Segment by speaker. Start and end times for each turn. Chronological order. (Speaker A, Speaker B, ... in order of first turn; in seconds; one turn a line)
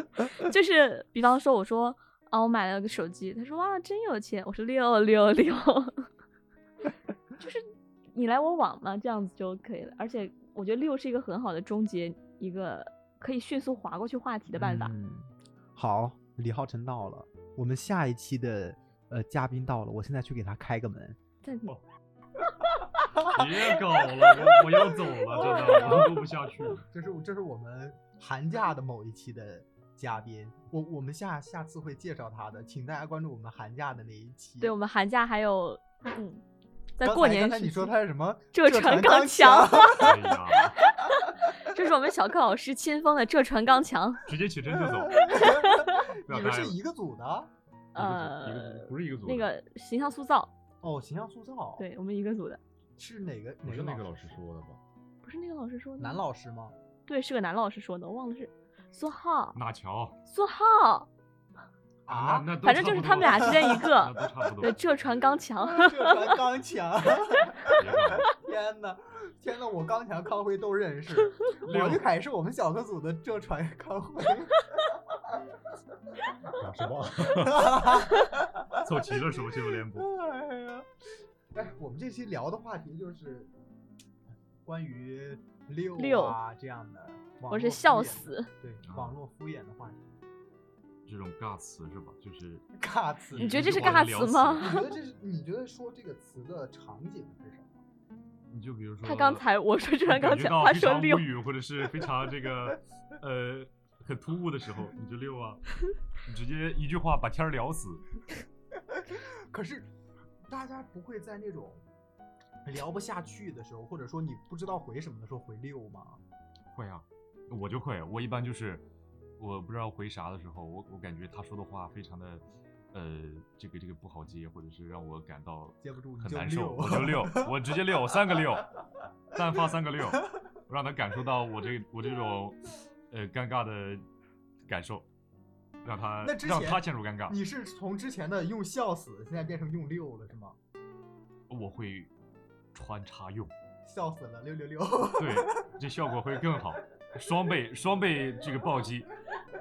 Speaker A: 0.2-6.1
Speaker A: 7.4-14.9
Speaker B: 14.5-21.2
Speaker A: 21.4-21.7
Speaker C: 23.2-26.8
Speaker B: 25.4-26.2
Speaker B: 26.8-34.7
Speaker A: 34.6-36.4
Speaker A: 37.0-38.0
Speaker B: 37.0-40.2
Speaker A: 38.5-44.2
Speaker C: 40.0-40.8
Speaker C: 44.2-45.5
Speaker B: 45.2-47.5
Speaker A: 45.2-46.0
Speaker C: 46.3-46.8
Speaker C: 48.0-49.5
Speaker A: 48.0-50.5
Speaker B: 50.8-51.9
Speaker A: 51.8-52.6
Speaker B: 53.0-54.4
Speaker C: 53.6-54.8
Speaker A: 55.2-56.2
Speaker B: 56.0-56.8
Speaker A: 57.1-59.6
Speaker C: 59.5-60.2
Speaker A: 60.3-61.1
Speaker B: 62.1-62.6
Speaker C: 62.1-64.8
Speaker A: 62.6-66.3
Speaker B: 63.2-63.9
Speaker B: 65.6-75.4
Speaker C: 67.7-68.3
Speaker C: 71.6-72.0
Speaker C: 76.5-78.1
Speaker B: 77.2-80.9
Speaker C: 78.8-80.1
Speaker B: 81.5-83.5
Speaker B: 84.7-90.2
Speaker A: 86.0-86.4
Speaker A: 87.5-88.5
Speaker C: 88.8-89.1
Speaker C: 91.0-92.7
Speaker B: 92.8-97.8
Speaker C: 93.3-94.8
Speaker A: 93.4-94.9
Speaker C: 98.5-99.5
Speaker A: 99.0-101.3
Speaker C: 100.0-108.1
Speaker B: 108.9-109.9
Speaker B: 110.5-111.8
Speaker B: 112.6-116.2
Speaker C: 116.7-118.9
Speaker C: 119.4-128.8
Speaker B: 125.8-127.5
Speaker C: 129.3-134.0
Speaker C: 134.7-135.1
Speaker C: 135.8-137.4
Speaker B: 136.2-140.6
Speaker C: 141.5-142.1
Speaker C: 142.7-143.5
Speaker B: 143.8-145.7
Speaker C: 145.2-149.1